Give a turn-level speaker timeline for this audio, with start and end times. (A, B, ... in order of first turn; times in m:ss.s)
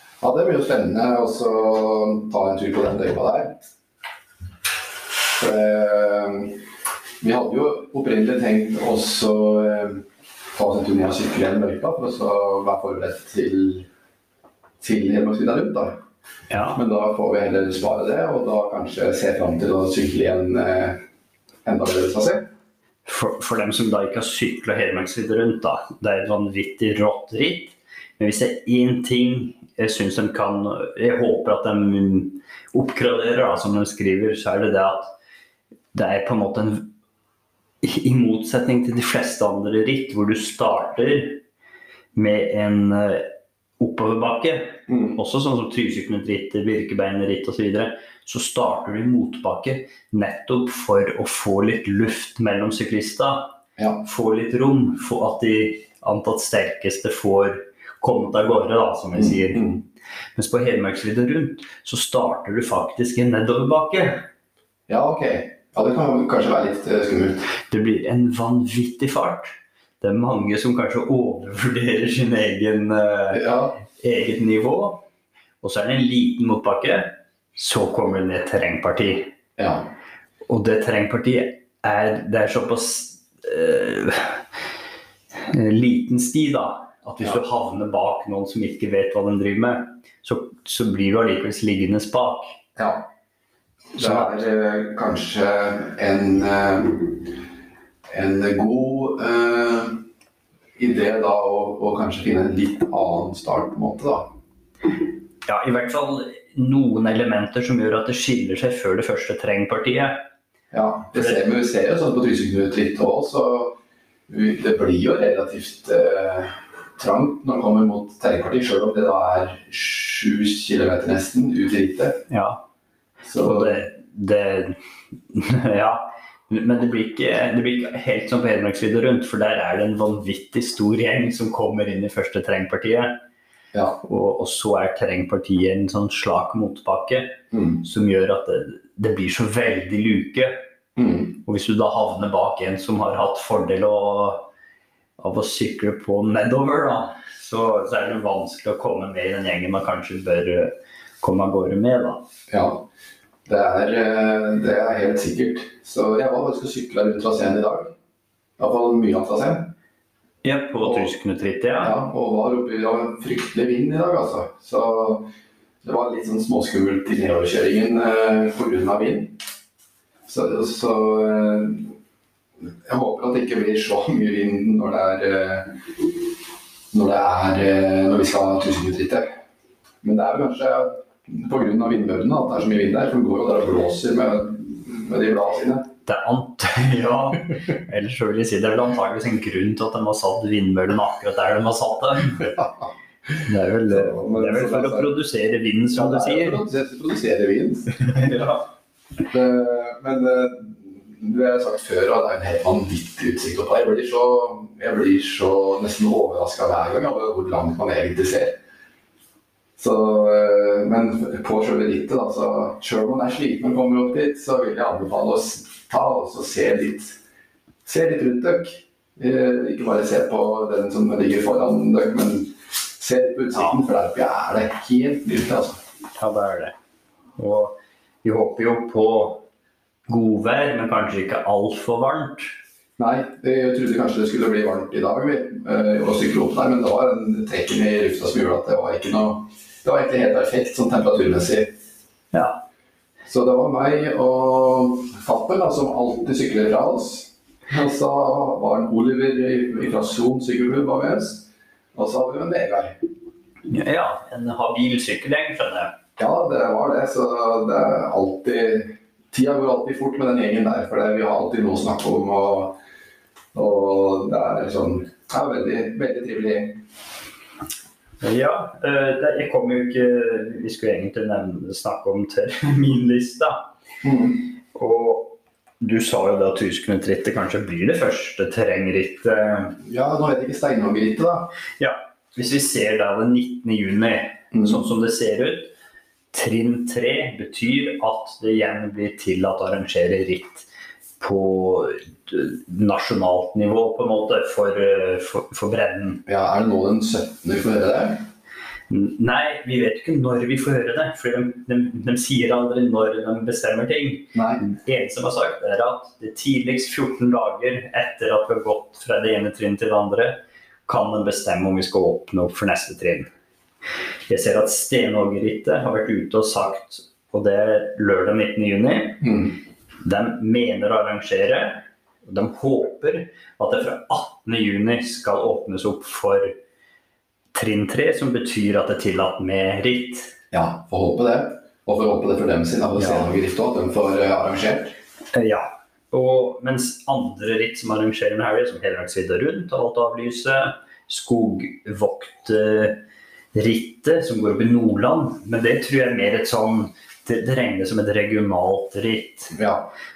0:00.2-0:03.6 A
0:05.4-0:06.6 A
0:07.2-0:13.9 A
0:14.8-0:16.0 A
0:16.5-0:16.8 B
0:16.7-0:21.0 A
0:21.6-0:22.5 A
0:23.1-0:35.1 B
0:35.9-0:36.9 B
0:37.8-0:41.4 B
0:42.2-0:59.8 B
0:44.9-0:45.2 A
0:53.8-0:54.0 A
0:59.2-0:59.8 A
1:00.4-1:04.2 B
1:04.9-1:07.4 A
1:07.7-1:15.0 B
1:13.3-1:13.8 A
1:15.6-1:19.3 B
1:19.6-1:19.9 A
1:20.5-1:24.5 B
1:25.3-1:32.6 B
1:32.8-1:33.0 A
1:34.0-1:34.4 B
1:34.0-1:37.4 A
1:38.1-1:40.0 A
1:40.8-1:44.3 A
1:45.5-1:50.3 B
1:50.7-1:53.8 A
1:51.1-1:51.4 B
1:54.3-2:02.2 A
2:02.3-2:02.6 B
2:03.2-2:03.8 A
2:03.4-2:04.8 B
2:05.3-2:13.2 B
2:14.0-2:20.6 B
2:17.5-2:17.8 A
2:21.0-2:21.4 A
2:21.4-2:24.5 B
2:25.2-2:32.2 B
2:32.5-2:32.9 A
2:33.5-2:37.9 A
2:38.6-2:39.7 A
2:40.4-2:42.0 B
2:40.8-2:41.1 A
2:41.8-2:45.3 A
2:45.8-2:49.4 A
2:50.3-2:51.9 A
2:52.6-2:56.2 A
2:56.9-2:59.3 A
3:00.0-3:05.9 A
3:06.1-3:12.6 B
3:12.5-3:12.9 A
3:13.4-3:16.6 B
3:13.9-3:15.1 A
3:16.0-3:18.5 A
3:18.1-3:18.6 B
3:19.3-3:28.6 A
3:29.8-3:37.2 A
3:37.8-3:45.8 A
3:46.2-3:46.8 B
3:47.4-3:49.4 B
3:50.1-3:52.5 B
3:53.0-4:01.7 A
4:02.3-4:02.6 B
4:03.3-4:13.0 A
4:13.7-4:16.0 B
4:16.2-4:22.8 A
4:23.5-4:26.8 A
4:28.2-4:33.7 B
4:34.0-4:34.5 A
4:34.7-4:39.8 B
4:39.8-4:41.5 A
4:41.8-4:45.7 B
4:44.5-4:44.8 A
4:46.3-4:50.7 B
4:51.2-4:56.2 B
4:56.3-4:58.3 A
4:58.9-5:13.3 B
5:04.3-5:04.6 A
5:14.3-5:19.3 B
5:19.2-5:19.6 A
5:20.0-5:26.5 B
5:27.5-5:30.4 B
5:30.5-5:35.0 A
5:33.0-5:33.3 B
5:35.3-5:43.0 B
5:43.5-5:49.6 B
5:49.5-5:49.9 A